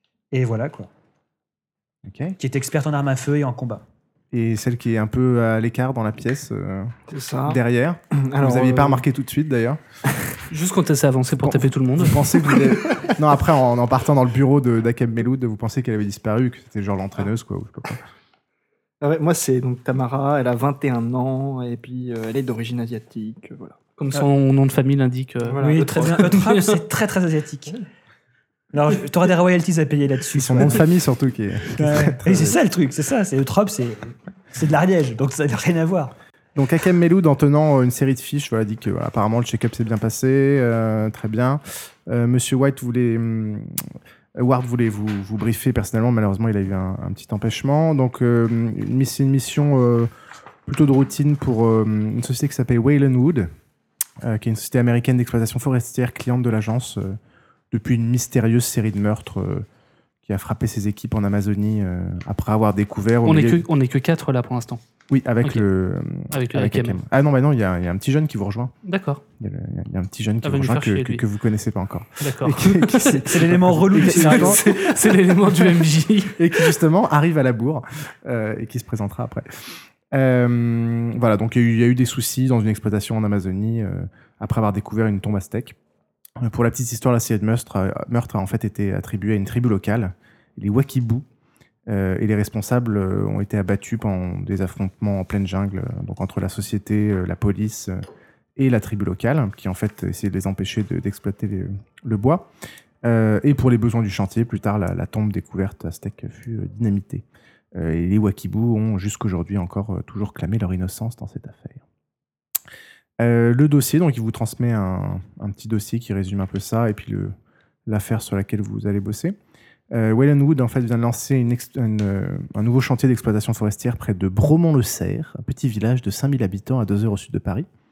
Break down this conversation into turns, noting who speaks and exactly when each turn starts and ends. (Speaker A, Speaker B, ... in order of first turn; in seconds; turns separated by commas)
Speaker A: 0.3-0.9, Speaker B: 2.1-2.4, Speaker A: 2.4-3.8, Speaker B: 4.3-9.8, Speaker C: 7.1-7.6, Speaker C: 8.1-9.0, Speaker D: 10.5-12.3, Speaker B: 11.4-18.0, Speaker C: 19.0-23.8, Speaker D: 24.0-26.8, Speaker C: 25.4-26.4, Speaker A: 25.6-27.8, Speaker A: 28.7-30.9, Speaker B: 30.4-32.6, Speaker A: 31.7-36.1, Speaker B: 36.6-50.1, Speaker B: 50.7-53.5, Speaker B: 54.2-57.2, Speaker B: 57.7-59.7, Speaker B: 60.2-63.6, Speaker D: 63.2-64.8, Speaker B: 65.1-68.8, Speaker D: 66.3-67.0, Speaker D: 68.8-69.2, Speaker B: 69.4-75.8, Speaker D: 70.4-71.2, Speaker D: 72.2-73.1, Speaker A: 73.0-74.6, Speaker D: 74.0-76.7, Speaker B: 76.4-85.8, Speaker B: 86.4-91.2, Speaker B: 91.9-98.0, Speaker B: 98.6-102.5, Speaker B: 103.0-111.8, Speaker B: 113.2-117.3, Speaker B: 117.9-119.3, Speaker B: 119.9-127.7